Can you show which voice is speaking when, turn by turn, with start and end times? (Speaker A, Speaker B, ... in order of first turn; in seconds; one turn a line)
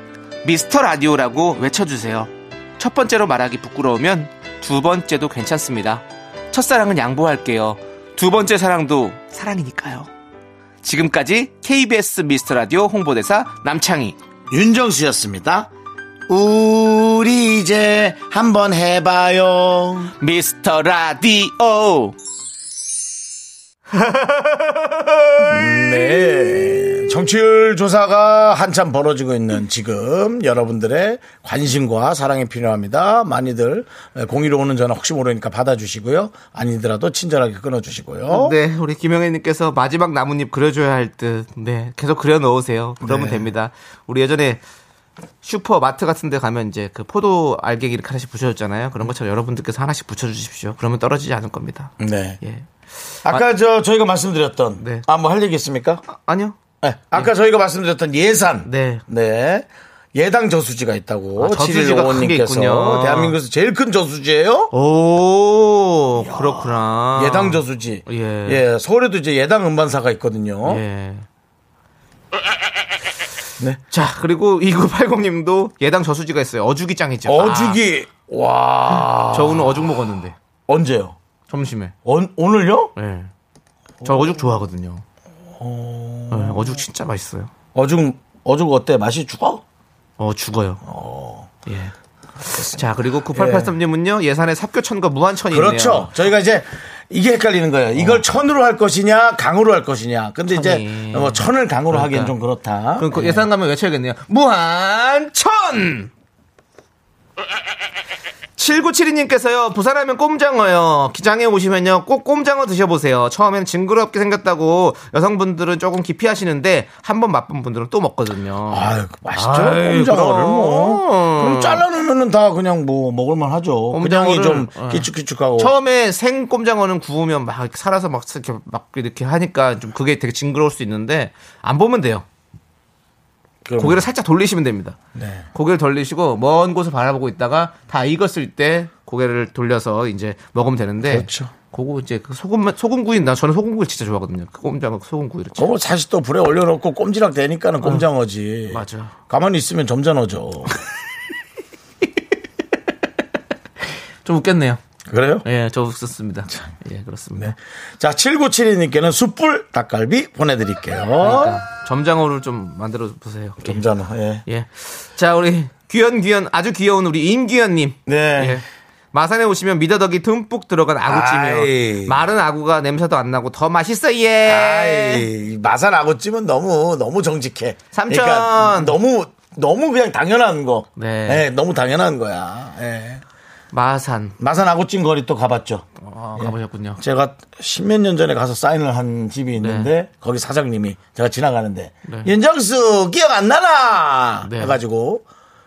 Speaker A: 0.4-10.1
Speaker A: 10.8-14.2
Speaker B: 14.5-15.7
Speaker B: 16.3-20.1
Speaker A: 20.2-22.1
Speaker A: 23.9-25.8
Speaker B: 25.5-38.5
Speaker A: 38.3-44.6
Speaker B: 43.0-43.5
Speaker A: 45.4-52.6
Speaker B: 52.0-52.4
Speaker B: 53.2-56.0
Speaker A: 54.8-55.0
Speaker A: 56.1-56.5
Speaker B: 56.8-64.7
Speaker A: 58.6-59.0
Speaker A: 61.4-63.3
Speaker A: 64.7-68.6
Speaker B: 66.2-70.8
Speaker A: 70.6-71.2
Speaker A: 73.9-77.8
Speaker B: 77.3-80.1
Speaker A: 79.2-80.3
Speaker B: 80.7-81.2
Speaker A: 81.5-81.9
Speaker B: 82.0-82.9
Speaker A: 83.0-83.3
Speaker B: 84.0-84.5
Speaker A: 84.0-85.0
Speaker B: 85.5-86.8
Speaker A: 86.3-87.5
Speaker B: 87.7-89.6
Speaker A: 90.2-90.8
Speaker B: 90.8-91.5
Speaker A: 91.7-96.2
Speaker B: 93.3-93.7
Speaker B: 95.5-103.5
Speaker A: 100.5-102.3
Speaker A: 103.0-106.1
Speaker A: 108.6-121.8
Speaker B: 118.7-125.7
Speaker A: 123.9-132.2
Speaker B: 133.6-134.0
Speaker A: 133.8-135.0
Speaker B: 135.1-135.5
Speaker A: 135.5-145.7
Speaker B: 141.0-141.5
Speaker B: 145.6-150.8
Speaker A: 148.7-149.1
Speaker A: 154.2-154.8
Speaker B: 155.1-155.4
Speaker A: 155.4-157.5
Speaker B: 157.4-161.6
Speaker A: 161.2-163.8
Speaker B: 163.6-164.4
Speaker A: 164.5-175.3
Speaker B: 168.1-168.6
Speaker B: 171.0-172.2
Speaker B: 174.4-183.2
Speaker A: 177.9-178.9
Speaker A: 181.0-181.4
Speaker A: 183.7-184.3
Speaker B: 184.4-185.8
Speaker A: 186.0-187.0
Speaker B: 186.4-195.2
Speaker A: 189.6-189.9
Speaker A: 192.1-192.3
Speaker A: 194.4-194.8